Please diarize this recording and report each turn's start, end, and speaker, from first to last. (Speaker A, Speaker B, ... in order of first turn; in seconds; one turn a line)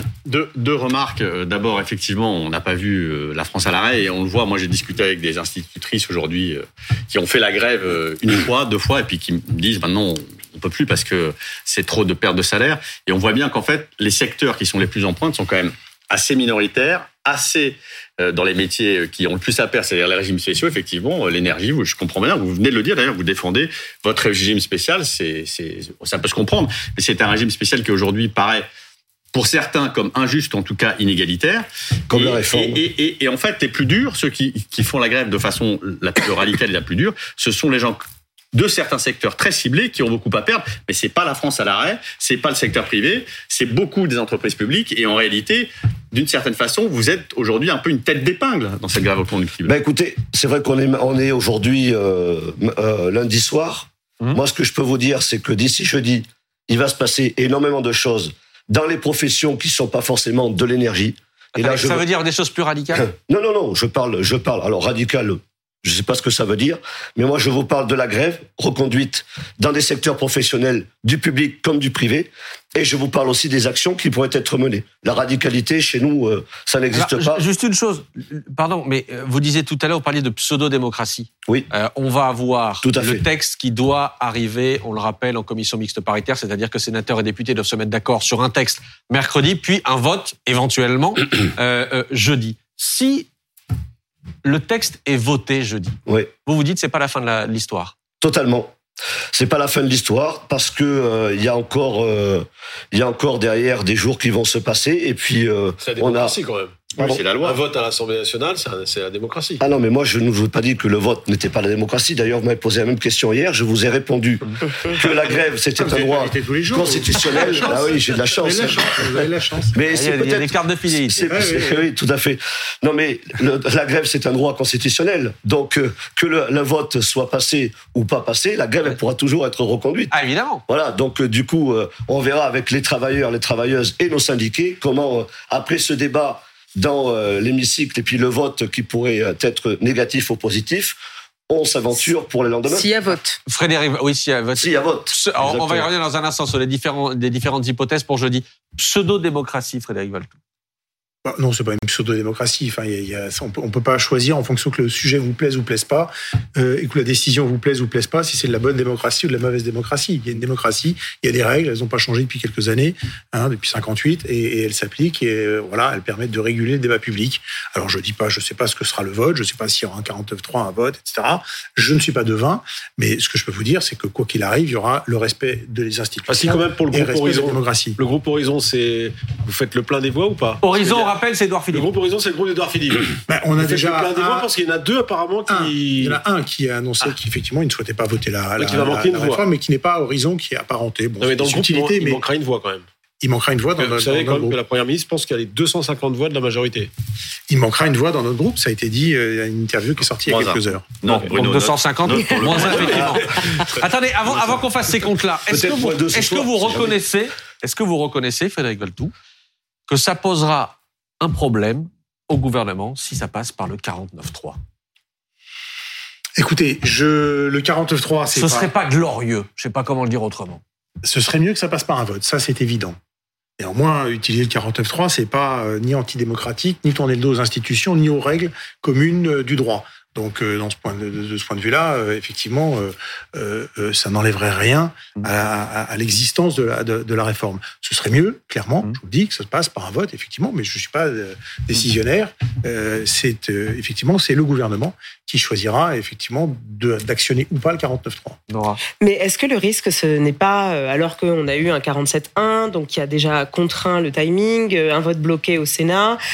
Speaker A: 0.2-28.7
Speaker A: 29.3-38.0
Speaker B: 32.1-32.8
Speaker A: 38.5-49.7
Speaker B: 49.6-62.0
Speaker C: 61.5-63.1
Speaker B: 62.9-77.5
Speaker C: 76.9-93.3
Speaker B: 82.8-83.2
Speaker C: 94.4-97.9
Speaker B: 96.1-96.3
Speaker B: 98.2-98.8
Speaker B: 99.3-106.4
Speaker D: 105.8-109.6
Speaker A: 107.0-107.6
Speaker B: 109.6-119.2
Speaker E: 115.7-119.8
Speaker B: 119.7-130.1
Speaker C: 119.9-121.3
Speaker E: 121.3-121.8
Speaker C: 130.1-130.6
Speaker B: 130.7-141.0
Speaker B: 141.5-142.9
Speaker F: 142.7-143.4
Speaker C: 143.5-150.3
Speaker B: 144.6-145.9
Speaker E: 151.2-178.0
Speaker D: 176.3-181.2
Speaker C: 180.6-181.9
Speaker D: 181.7-186.2
Speaker E: 183.3-184.5
Speaker E: 185.5-192.2
Speaker D: 188.6-189.5
Speaker D: 191.2-192.9
Speaker E: 193.2-194.6
Speaker D: 193.8-196.9
Speaker E: 197.5-200.9
Speaker A: 200.2-203.2
Speaker C: 201.1-209.1
Speaker B: 202.5-203.2
Speaker D: 202.6-203.3
Speaker B: 205.5-207.0
Speaker C: 209.9-214.6
Speaker E: 216.4-218.7
Speaker C: 218.3-220.6
Speaker E: 221.0-223.0
Speaker E: 223.6-248.4
Speaker C: 248.5-248.8
Speaker F: 249.0-256.2